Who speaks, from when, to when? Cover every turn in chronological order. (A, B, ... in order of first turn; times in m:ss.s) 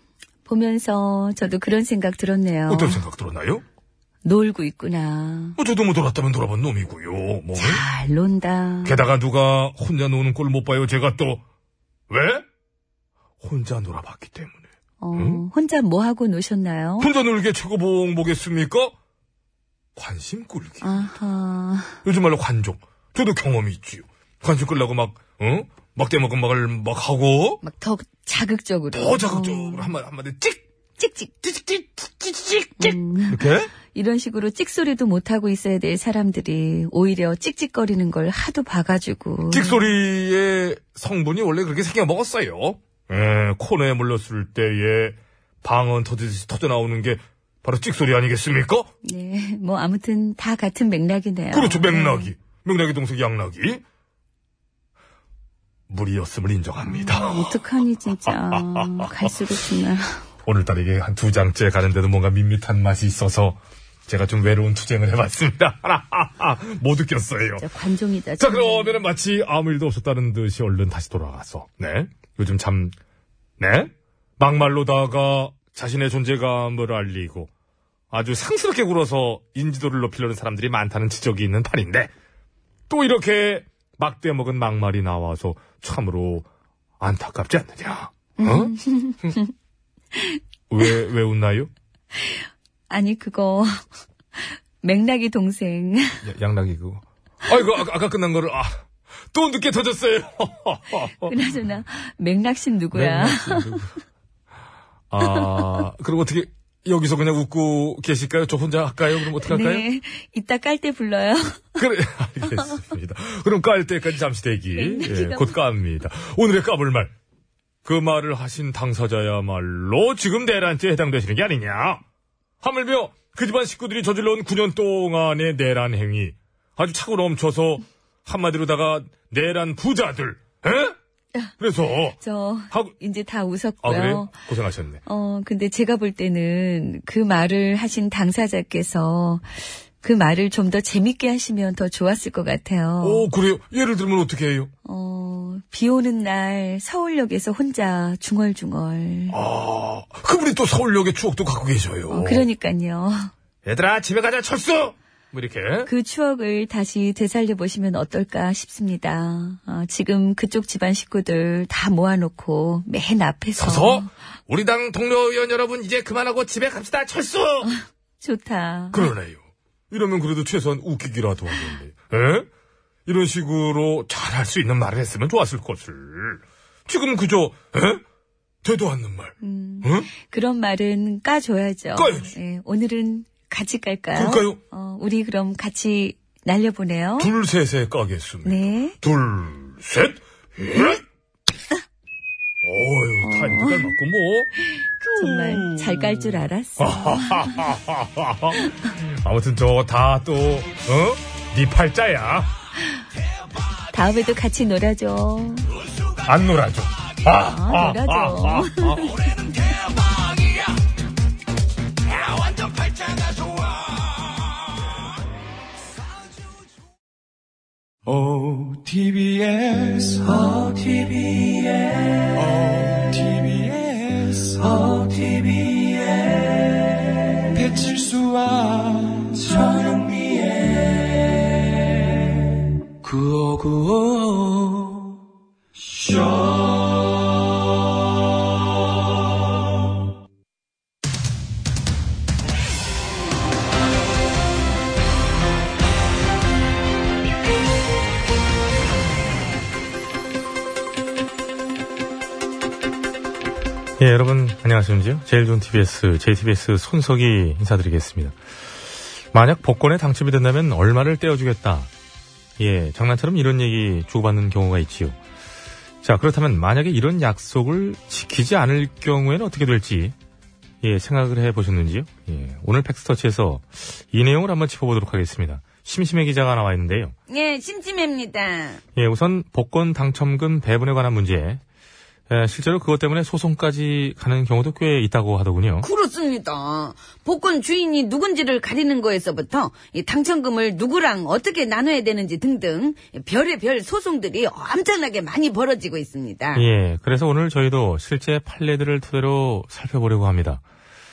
0:00.4-0:03.0 A
0:02.7-0:03.6 B
0:04.2-0:05.6 A
0:05.6-0:07.8 B
0:07.6-0:09.0 A
0:08.8-0:11.4 B
0:12.1-0:12.4 B
0:13.4-0:14.6 B
0:15.0-0:17.1 A
0:15.2-0:15.4 B
0:17.0-0:18.9 B
0:20.0-0:20.9 B
0:20.8-0:22.0 A
0:22.0-0:27.6 B
0:27.6-0:29.9 A
0:28.9-0:30.6 B
0:31.0-0:31.3 A
0:31.3-0:33.7 B
0:32.8-0:39.8 A
0:39.5-0:48.9 B
0:49.0-0:52.3 A
0:51.5-0:53.8 B
0:55.9-0:57.5 B
0:56.8-1:00.2 A
0:58.5-0:59.0 B
1:00.4-1:07.6 B
1:07.6-1:09.0 A
1:08.4-1:13.0 B
1:13.6-1:17.5 B
1:18.1-1:22.1 B
1:22.9-1:26.5 B
1:27.0-1:29.3 B
1:28.4-1:29.5 A
1:30.7-1:31.7 B
1:32.2-1:33.8 A
1:34.4-1:36.2 A
1:36.2-1:38.8 B
1:39.3-1:41.3 B
1:41.2-1:43.9 A
1:42.9-1:43.8 B
1:45.1-1:49.8 B
1:45.2-1:45.8 A
1:49.4-1:51.6 A
1:51.8-1:57.1 B
1:54.7-1:55.6 A
1:57.8-2:02.0 B
2:02.6-2:10.9 B
2:11.6-2:12.2 B
2:12.2-2:14.3 A
2:13.8-2:15.0 B
2:15.0-2:19.4 A
2:20.0-2:23.3 A
2:23.0-2:24.7 B
2:24.8-2:29.4 A
2:29.3-2:32.4 B
2:32.1-2:33.3 A
2:33.6-2:35.9 B
2:35.8-2:44.1 A
2:43.6-2:47.7 B
2:47.6-2:49.1 A
2:48.9-2:49.4 B
2:49.9-2:52.5 B
2:53.0-2:58.0 B
2:58.6-3:00.1 B
2:59.4-3:07.3 A
3:02.0-3:02.3 B
3:04.2-3:04.6 B
3:07.2-3:11.0 B
3:08.4-3:09.0 A
3:12.6-3:14.5 B
3:13.2-3:13.9 A
3:14.6-3:17.7 A
3:15.2-3:22.5 B
3:23.9-3:25.7 A
3:26.2-3:29.2 B
3:27.4-3:29.2 A
3:32.6-3:33.3 C
3:38.0-3:46.5 C
3:47.5-3:51.2 C
3:53.0-3:55.2 C
3:55.9-3:56.8 C
4:14.0-4:18.4 B
4:19.3-4:21.9 B
4:22.6-4:25.2 B
4:26.0-4:30.1 B
4:30.8-4:37.1 B
4:37.3-4:38.8 D
4:39.0-4:41.6 B
4:42.3-4:45.9 B
4:45.8-4:56.7 D
4:56.5-5:00.6 B